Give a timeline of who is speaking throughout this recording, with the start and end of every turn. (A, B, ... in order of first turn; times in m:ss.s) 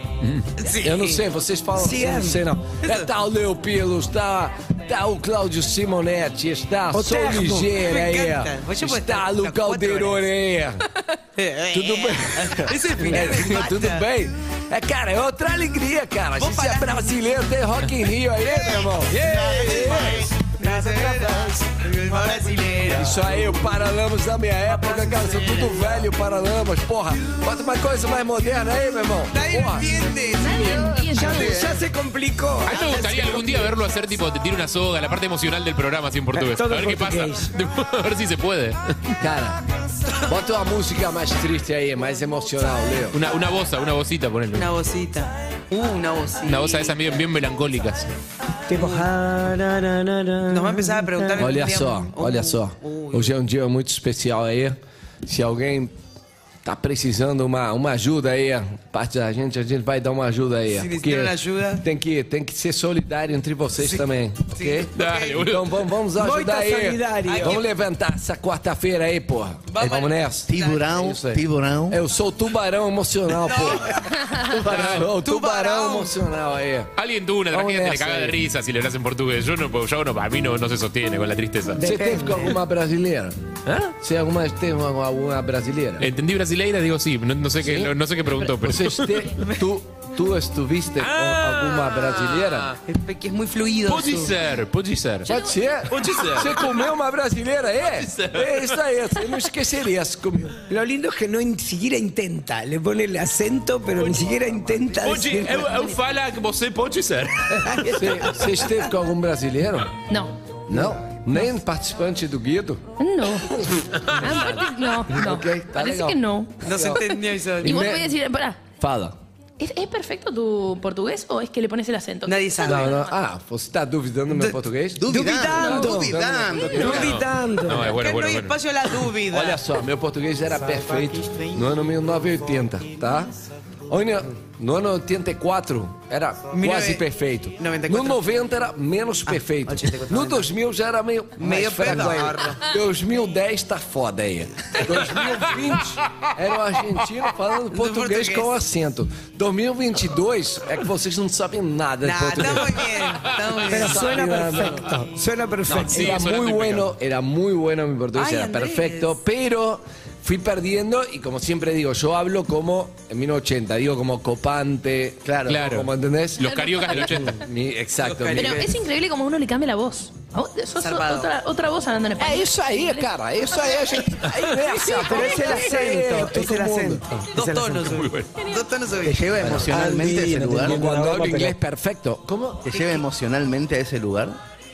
0:00.2-0:00.5 A
0:00.6-0:01.2 B
0:00.8-0:10.8 C
0:01.8-0:02.4 D
0:02.8-0:03.1 B
0:06.9-0:07.8 D
0:07.8-0:10.3 B
0:11.4-0:14.0 B
0:11.7-0:20.3 C
0:16.4-0:17.1 B
0:18.6-0:23.6 B
0:20.8-0:21.6 D
0:22.8-0:30.0 C
0:24.8-0:26.0 B
0:29.3-0:30.9 B
0:30.4-0:31.8 E
0:30.6-0:33.7 D
0:31.2-0:31.7 F
0:32.6-0:39.1 A
0:32.8-0:33.5 B
0:36.3-0:37.5 D
0:39.2-0:39.6 C
0:40.2-0:43.2 C
0:43.1-0:44.7 A
0:44.5-0:47.1 B
0:46.4-0:48.1 A
0:48.7-0:51.6 D
0:48.7-0:49.1 B
0:50.5-0:53.3 B
0:51.4-0:55.9 C
0:56.6-1:14.0 C
1:00.7-1:01.8 B
1:03.9-1:05.5 B
1:04.9-1:05.8 A
1:06.1-1:07.6 D
1:07.2-1:07.6 B
1:09.7-1:10.9 B
1:10.5-1:12.0 F
1:13.4-1:14.3 B
1:14.5-1:15.0 F
1:14.7-1:16.9 C
1:14.8-1:15.0 A
1:15.2-1:16.2 B
1:17.0-1:21.8 A
1:17.5-1:18.4 C
1:21.7-1:22.6 D
1:21.8-1:23.4 C
1:23.7-1:23.9 A
1:24.0-1:26.1 C
1:26.0-1:29.3 A
1:27.6-1:32.7 C
1:31.0-1:32.7 A
1:32.8-1:34.4 B
1:33.8-1:35.2 A
1:35.2-1:35.5 E
1:35.2-1:40.6 C
1:35.9-1:36.8 A
1:38.0-1:38.5 A
1:40.7-1:45.9 D
1:45.0-1:47.6 A
1:47.7-1:48.8 D
1:47.9-1:49.9 C
1:50.1-1:50.4 E
1:50.7-1:52.8 C
1:53.0-1:58.6 E
1:54.2-1:57.0 C
1:56.6-1:57.8 B
1:57.6-1:58.1 C
1:58.8-1:59.2 C
1:59.6-2:03.1 E
2:02.2-2:03.0 B
2:02.6-2:05.1 C
2:05.0-2:07.1 F
2:05.0-2:08.0 D
2:05.5-2:05.9 E
2:06.1-2:07.1 C
2:06.8-2:08.6 A
2:06.8-2:07.2 B
2:07.8-2:09.6 B
2:09.3-2:13.3 C
2:13.9-2:33.0 C
2:16.6-2:17.0 B
2:17.6-2:18.2 B
2:19.3-2:20.5 B
2:21.4-2:22.6 B
2:27.7-2:28.5 B
2:32.0-2:34.2 B
2:33.6-2:36.2 D
2:33.7-2:34.9 C
2:35.7-2:36.9 A
2:35.9-2:48.6 C
2:38.1-2:39.1 B
2:45.2-2:45.7 F
2:45.5-2:47.4 A
2:46.4-2:47.2 E
2:48.0-2:48.7 B
2:48.3-2:53.1 E
2:50.8-2:51.3 B
2:52.2-2:57.0 C
2:54.8-2:58.1 D
2:55.1-2:55.5 E
2:57.3-2:59.3 B
2:57.9-2:58.3 A
2:59.0-3:00.8 F
2:59.4-3:03.0 C
3:00.4-3:01.6 D
3:02.6-3:04.4 F